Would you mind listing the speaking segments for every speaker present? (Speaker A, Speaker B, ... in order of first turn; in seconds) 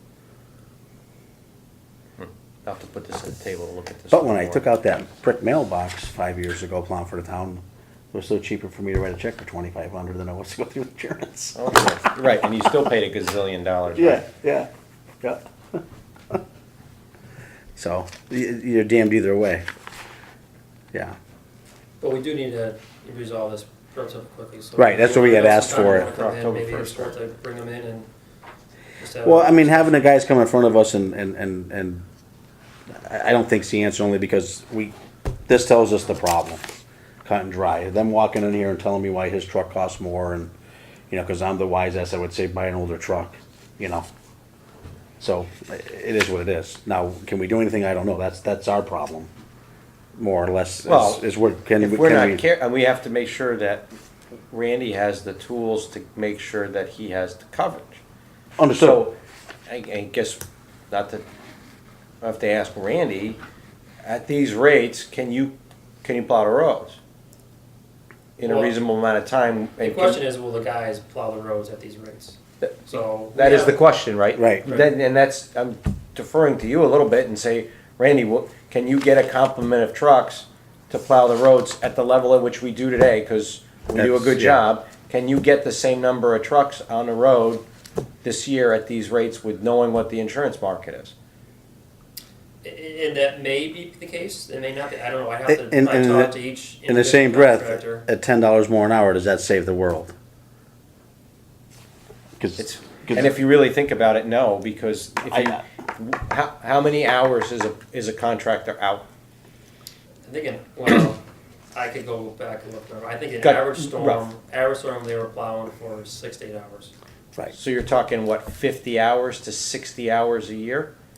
Speaker A: 2.2-4.7, 11.6-14.2, 25.2-27.2, 50.9-51.2, 51.8-53.9, 54.5-58.0, 58.7-61.2, 62.2-63.4, 64.0-67.0, 68.4-70.2, 73.3-87.6, 88.2-91.1, 102.6-109.1, 113.4-114.3, 117.5-120.9
Speaker B: 4.1-11.9, 13.9-14.7, 15.2-16.4, 17.8-19.6, 24.8-26.1, 29.2-32.0, 33.0-34.9, 35.5-36.6, 37.2-40.5, 41.1-44.1, 45.2-49.3, 50.2-52.4, 58.6-59.1, 74.4-74.7, 84.0-84.6, 95.5-100.1, 102.4-103.3, 105.3-105.6
Speaker C: 22.0-28.1, 29.0-29.9, 68.4-68.8, 69.8-73.8, 92.6-98.1, 110.3-111.2, 111.8-116.9